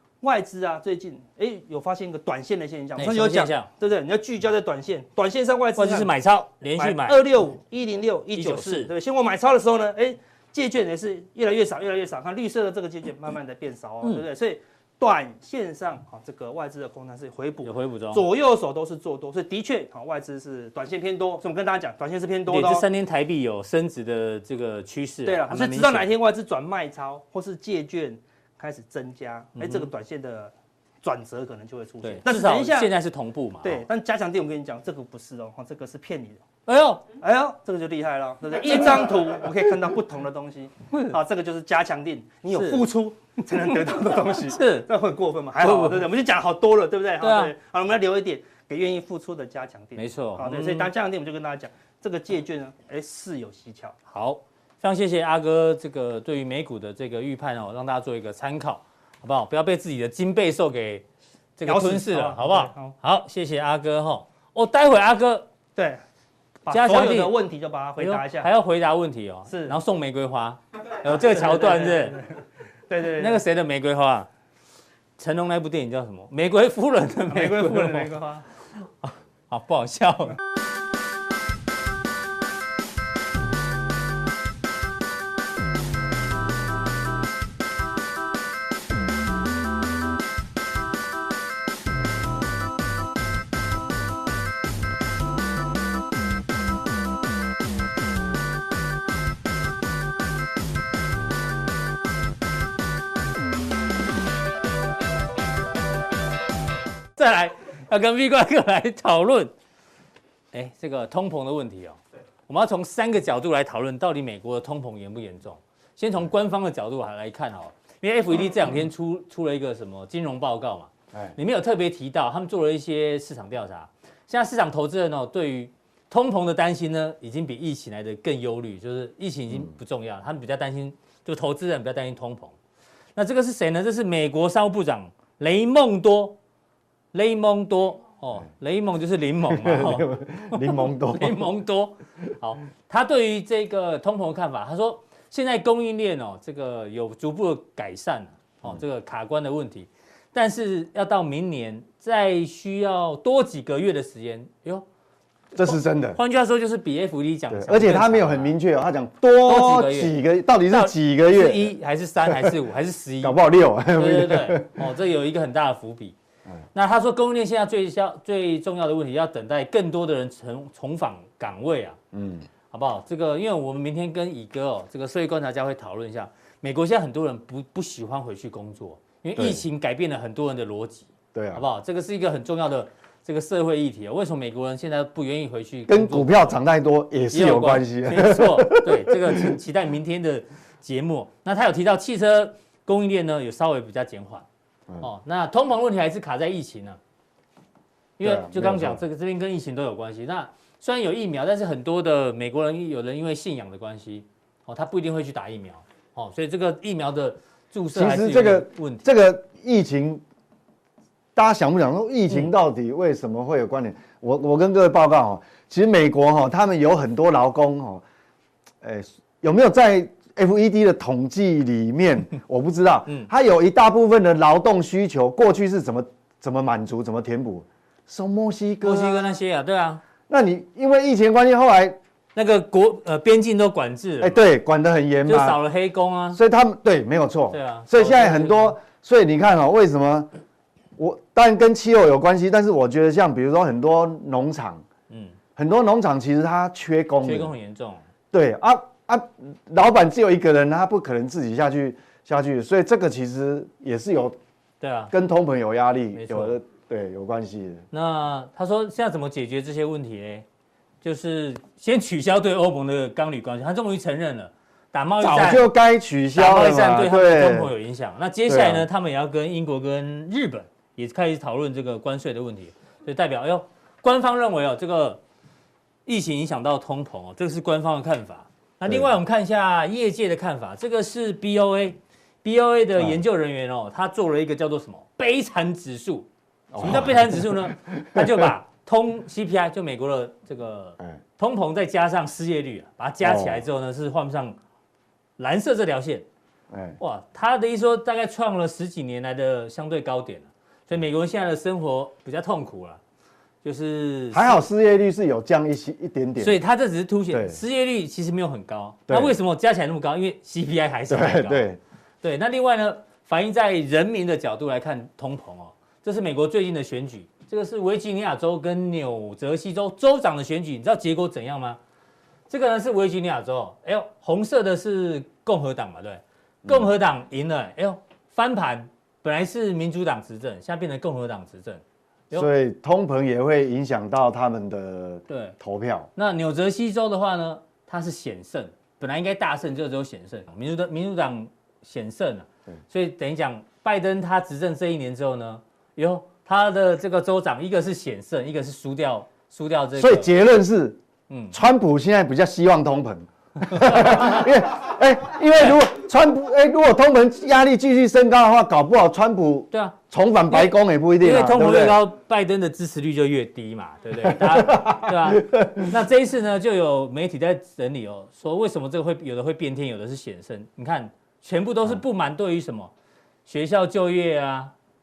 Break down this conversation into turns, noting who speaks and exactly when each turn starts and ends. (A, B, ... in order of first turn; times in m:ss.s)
0:00.2-0:06.1 A
0:03.0-0:03.7 B
0:05.8-0:07.2 B
0:06.8-0:22.8 A
0:08.3-0:08.9 B
0:17.6-0:18.2 B
0:22.5-0:26.1 B
0:25.2-0:32.9 A
0:29.6-0:29.9 B
0:32.0-0:33.8 B
0:33.6-0:36.4 A
0:36.6-0:37.0 B
0:37.2-0:54.0 A
0:38.6-0:39.3 B
0:42.5-0:42.8 B
0:43.7-0:44.9 B
0:45.6-0:46.0 B
0:47.2-0:47.5 B
0:50.0-0:50.9 B
0:54.1-1:01.0 B
1:01.6-1:05.5 B
1:01.6-1:02.9 A
1:05.8-1:06.0 A
1:06.6-1:08.5 A
1:06.7-1:07.4 B
1:08.0-1:12.2 B
1:09.5-1:09.8 A
1:11.1-1:13.4 A
1:13.2-1:14.3 B
1:15.2-1:18.1 B
1:17.3-1:18.4 A
1:19.0-1:20.4 B
1:47.2-1:49.5 B
1:50.5-2:12.5 B
2:13.2-2:16.4 B
2:17.1-2:34.8 B
2:19.5-2:21.5 C
2:35.5-2:36.2 C
2:35.6-2:38.5 B
2:37.5-2:41.7 C
2:39.4-2:40.1 B
2:40.7-2:43.4 B
2:42.2-2:42.6 C
2:43.2-2:44.8 C
2:43.9-2:46.1 B
2:46.7-2:52.0 B
2:52.1-2:52.5 C
2:52.7-3:06.5 B
2:59.4-2:59.6 C
3:01.3-3:01.6 C
3:05.9-3:09.6 C
3:07.3-3:14.4 B
3:15.0-3:17.0 B
3:18.2-3:29.0 B
3:18.2-3:19.0 C
3:27.9-3:30.2 C
3:31.3-3:38.0 C
3:38.8-3:49.4 C
3:48.8-3:50.0 B
3:50.3-3:52.0 C
3:52.3-3:54.4 B
3:54.2-3:55.6 C
3:55.2-3:56.4 B
3:56.3-4:00.3 C
3:57.5-3:58.8 B
4:01.0-4:04.8 C
4:05.1-4:05.4 B
4:05.6-4:07.5 C
4:07.2-4:08.0 B
4:08.3-4:14.4 C
4:14.8-4:15.1 B
4:15.1-4:17.8 C
4:16.1-4:16.6 B
4:17.9-4:20.4 B
4:21.0-4:25.7 B
4:25.2-4:27.7 C
4:26.3-4:35.2 B
4:28.5-4:28.9 C
4:36.0-4:46.3 B
4:38.8-4:39.1 C
4:46.7-4:48.5 C
4:46.8-4:54.6 B
4:53.2-4:53.6 C
4:55.4-4:56.2 B
4:56.7-4:57.0 C
4:57.0-5:03.0 B
5:03.6-5:04.6 B
5:04.3-5:06.6 C
5:06.4-5:11.6 B
5:07.3-5:07.6 C
5:09.1-5:09.4 C
5:11.1-5:11.8 C
5:12.2-5:21.8 B
5:22.5-5:32.5 B
5:26.6-5:26.9 C
5:32.3-5:36.1 C
5:35.3-5:35.6 B
5:36.2-5:50.3 B
5:50.0-5:51.0 C
5:51.3-5:51.6 B
5:51.5-6:02.0 C
5:53.7-5:54.5 B
5:59.7-6:00.0 B
6:00.5-6:12.9 B
6:04.2-6:05.9 C
6:13.4-6:14.7 B